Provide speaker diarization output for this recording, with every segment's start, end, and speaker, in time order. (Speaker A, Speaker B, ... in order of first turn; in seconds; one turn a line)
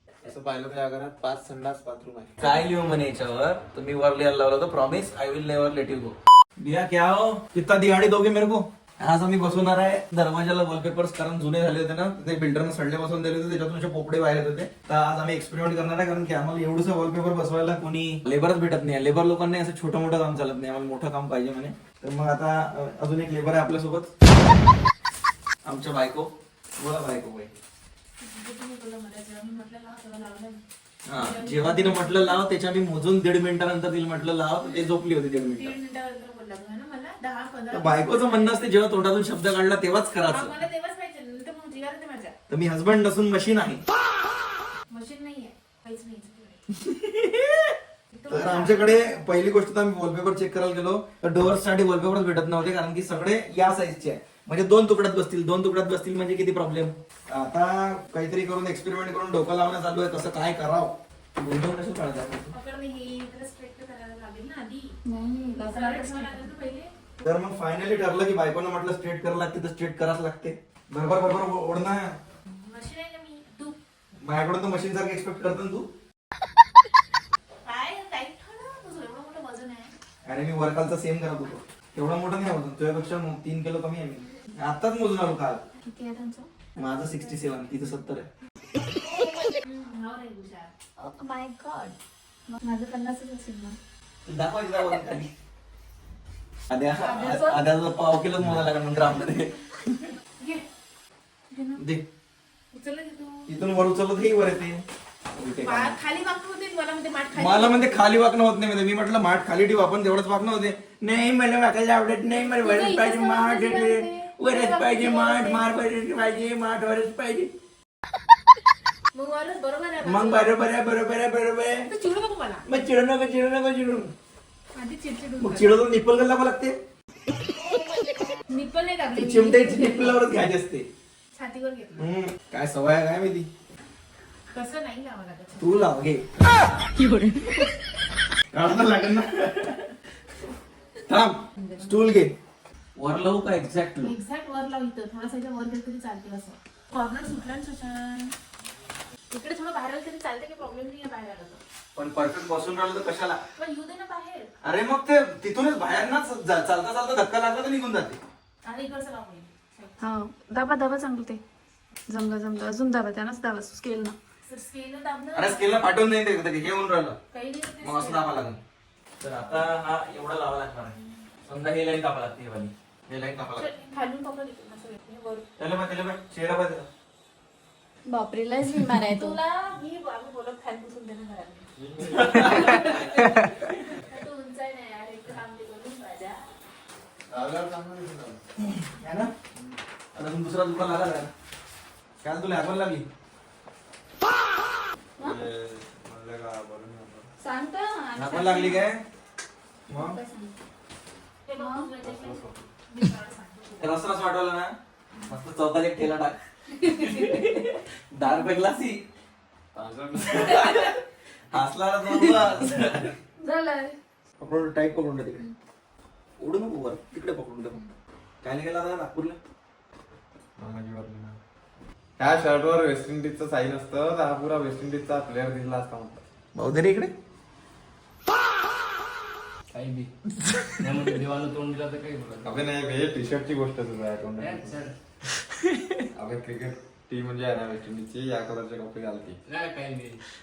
Speaker A: 0.2-2.4
Speaker B: 2.4-24.1
Speaker B: 25.6-27.6
Speaker C: 28.2-30.6
Speaker B: 31.1-35.8
Speaker C: 31.1-32.4
Speaker C: 34.6-34.9
Speaker C: 35.5-38.7
Speaker B: 37.7-40.6
Speaker C: 40.3-42.4
Speaker B: 42.5-43.8
Speaker C: 44.9-46.6
Speaker B: 46.7-47.8
Speaker C: 48.1-49.2
Speaker B: 48.3-62.5
Speaker C: 62.5-65.0
Speaker D: 65.0-66.3
Speaker C: 65.6-66.9
Speaker B: 67.2-72.1
Speaker C: 72.6-73.8
Speaker B: 74.2-75.9
Speaker C: 77.7-80.0
Speaker B: 80.3-85.7
Speaker C: 85.8-86.5
Speaker B: 86.8-88.3
Speaker C: 89.6-90.7
Speaker D: 91.0-91.9
Speaker C: 92.6-93.8
Speaker B: 94.2-95.3
Speaker B: 96.7-100.1
Speaker C: 97.0-97.5
Speaker C: 101.5-101.8
Speaker B: 101.8-102.1
Speaker C: 102.7-103.5
Speaker B: 103.5-104.8
Speaker B: 105.3-106.0
Speaker C: 105.6-108.1
Speaker B: 107.3-117.5
Speaker C: 112.5-115.7
Speaker C: 119.1-120.5
Speaker B: 120.0-121.9
Speaker C: 121.9-122.7
Speaker B: 122.7-124.1
Speaker C: 124.8-125.7
Speaker B: 125.4-126.8
Speaker C: 128.5-130.2
Speaker B: 129.2-130.9
Speaker C: 131.3-132.1
Speaker B: 132.0-133.5
Speaker C: 134.5-135.9
Speaker B: 135.6-136.3
Speaker D: 137.0-137.7
Speaker B: 138.5-139.9
Speaker B: 141.1-142.3
Speaker C: 141.6-142.2
Speaker B: 143.0-144.2
Speaker C: 144.0-148.3
Speaker C: 149.3-151.6
Speaker B: 152.0-153.4
Speaker C: 153.6-154.5
Speaker B: 154.6-158.2
Speaker C: 158.6-160.1
Speaker D: 160.0-161.4
Speaker E: 160.3-161.4
Speaker D: 162.1-164.2
Speaker E: 162.1-164.2
Speaker C: 164.4-165.8
Speaker B: 165.3-167.2
Speaker C: 167.3-168.4
Speaker B: 167.8-168.6
Speaker B: 169.2-173.7
Speaker C: 173.6-175.4
Speaker B: 175.6-176.9
Speaker D: 178.1-179.4
Speaker C: 179.0-181.7
Speaker A: 181.8-182.9
Speaker B: 182.1-183.7
Speaker C: 182.3-186.4
Speaker A: 187.3-188.4
Speaker B: 188.7-189.3
Speaker B: 190.2-191.3
Speaker B: 192.2-193.1
Speaker A: 195.2-197.3
Speaker D: 197.4-198.8
Speaker B: 198.2-199.0
Speaker B: 199.9-200.2
Speaker D: 200.0-200.6
Speaker C: 201.5-204.0
Speaker D: 201.6-201.9
Speaker A: 202.0-202.7
Speaker B: 203.8-204.7
Speaker B: 205.3-209.0
Speaker A: 209.7-210.8
Speaker B: 210.2-213.2
Speaker D: 213.4-213.9
Speaker E: 213.5-213.9
Speaker B: 214.4-215.5
Speaker B: 216.4-217.8
Speaker B: 218.4-219.4
Speaker A: 220.6-221.4
Speaker A: 222.2-226.2
Speaker B: 226.6-227.1
Speaker E: 229.7-230.1
Speaker E: 230.8-232.6
Speaker A: 232.4-234.8
Speaker E: 234.4-235.0
Speaker B: 235.5-236.0
Speaker A: 236.1-239.4
Speaker E: 239.5-240.2